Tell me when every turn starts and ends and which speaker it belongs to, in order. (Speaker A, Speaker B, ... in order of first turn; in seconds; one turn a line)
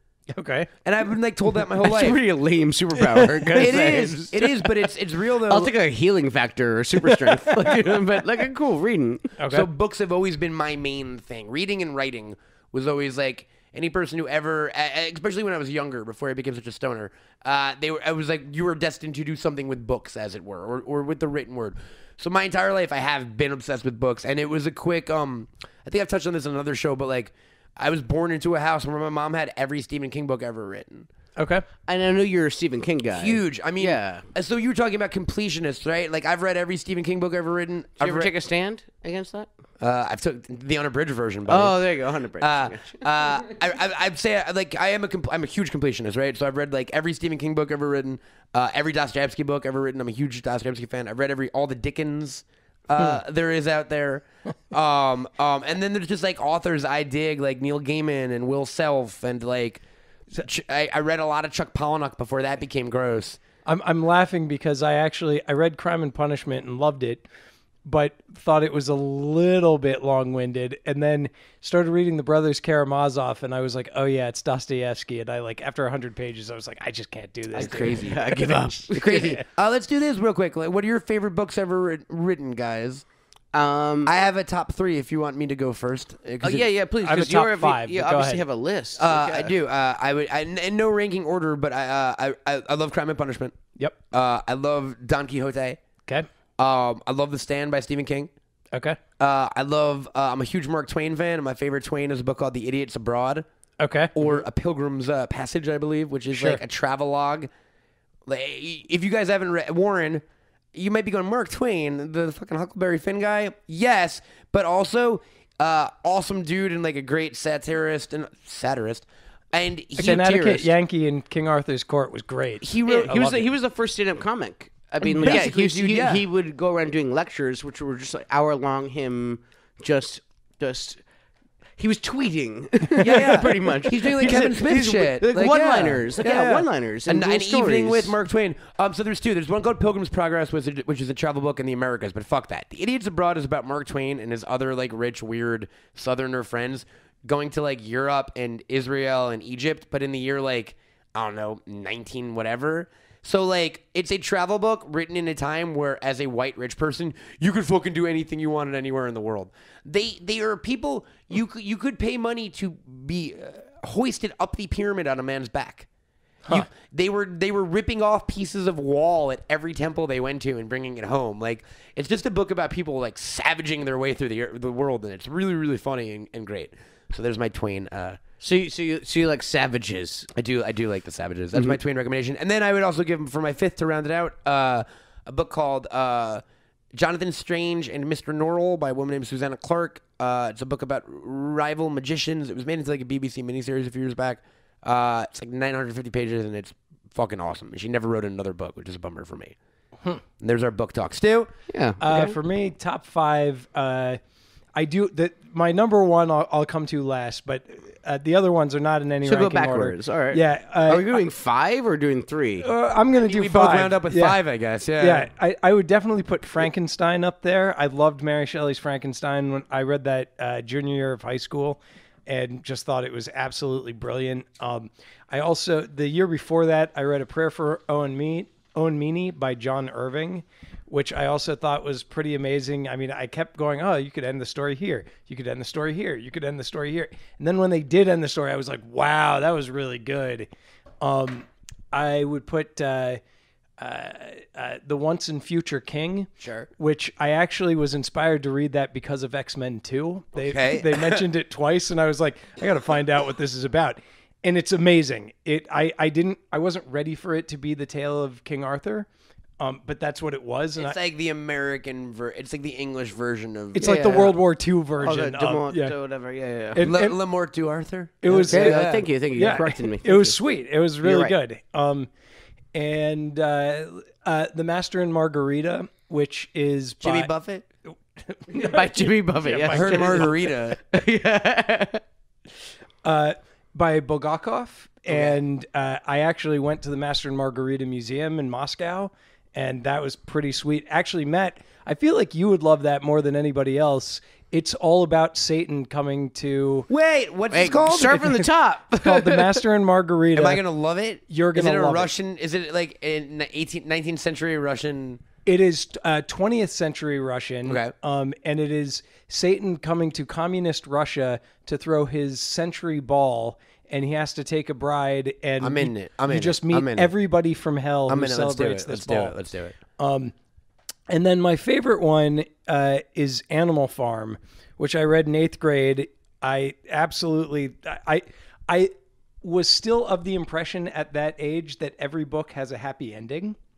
Speaker A: 0.3-0.7
Speaker B: 0.8-2.2
Speaker C: 1.8-4.6
Speaker A: 3.1-3.8
Speaker B: 3.6-5.7
Speaker C: 5.5-9.4
Speaker A: 9.4-9.7
Speaker B: 9.5-31.1
Speaker A: 31.4-31.6
Speaker C: 31.9-34.2
Speaker B: 33.1-38.3
Speaker C: 38.0-39.5
Speaker B: 39.8-41.8
Speaker C: 41.5-43.1
Speaker B: 42.4-59.8
Speaker B: 60.4-63.4
Speaker A: 63.6-67.2
Speaker A: 67.8-78.4
Speaker B: 77.5-78.3
Speaker C: 77.5-79.4
Speaker B: 78.9-83.0
Speaker C: 83.5-84.1
Speaker B: 84.0-86.7
Speaker C: 86.4-89.5
Speaker A: 87.0-88.4
Speaker B: 89.0-93.6
Speaker B: 94.1-95.8
Speaker B: 96.6-98.3
Speaker A: 98.7-99.0
Speaker B: 99.2-103.4
Speaker A: 103.8-104.1
Speaker B: 104.1-107.5
Speaker A: 106.3-106.6
Speaker B: 108.3-110.2
Speaker B: 110.7-120.7
Speaker A: 120.0-123.4
Speaker B: 122.6-123.3
Speaker C: 122.8-131.0
Speaker A: 125.0-125.4
Speaker B: 125.2-126.2
Speaker C: 131.8-138.2
Speaker A: 133.0-133.8
Speaker B: 133.0-165.9
Speaker B: 166.5-178.2
Speaker C: 178.4-180.3
Speaker B: 180.3-186.4
Speaker B: 186.9-199.5
Speaker B: 200.4-201.5
Speaker C: 201.7-202.4
Speaker A: 202.0-204.2
Speaker A: 204.8-211.2
Speaker C: 209.2-212.7
Speaker A: 212.6-214.4
Speaker B: 213.2-215.3
Speaker A: 215.0-240.5
Speaker A: 241.0-243.2
Speaker A: 243.8-259.1
Speaker B: 246.4-246.7
Speaker B: 250.4-251.2
Speaker A: 259.6-261.0
Speaker B: 260.8-264.3
Speaker A: 263.8-265.9
Speaker C: 263.8-264.4
Speaker C: 265.0-266.9
Speaker A: 266.8-267.2
Speaker B: 266.8-269.1
Speaker A: 268.2-268.8
Speaker C: 268.3-270.4
Speaker A: 269.4-272.1
Speaker C: 271.0-271.3
Speaker A: 272.7-277.3
Speaker B: 277.0-277.6
Speaker A: 277.9-280.3
Speaker C: 278.5-282.0
Speaker B: 279.7-280.8
Speaker A: 283.0-296.9
Speaker B: 285.1-285.4
Speaker B: 296.9-298.4
Speaker C: 297.5-299.6
Speaker A: 299.0-300.6
Speaker B: 300.3-305.2
Speaker A: 301.3-302.1
Speaker A: 305.4-319.4
Speaker B: 307.6-307.9
Speaker B: 315.6-317.1
Speaker B: 318.1-319.7
Speaker A: 320.0-320.3
Speaker A: 321.1-333.6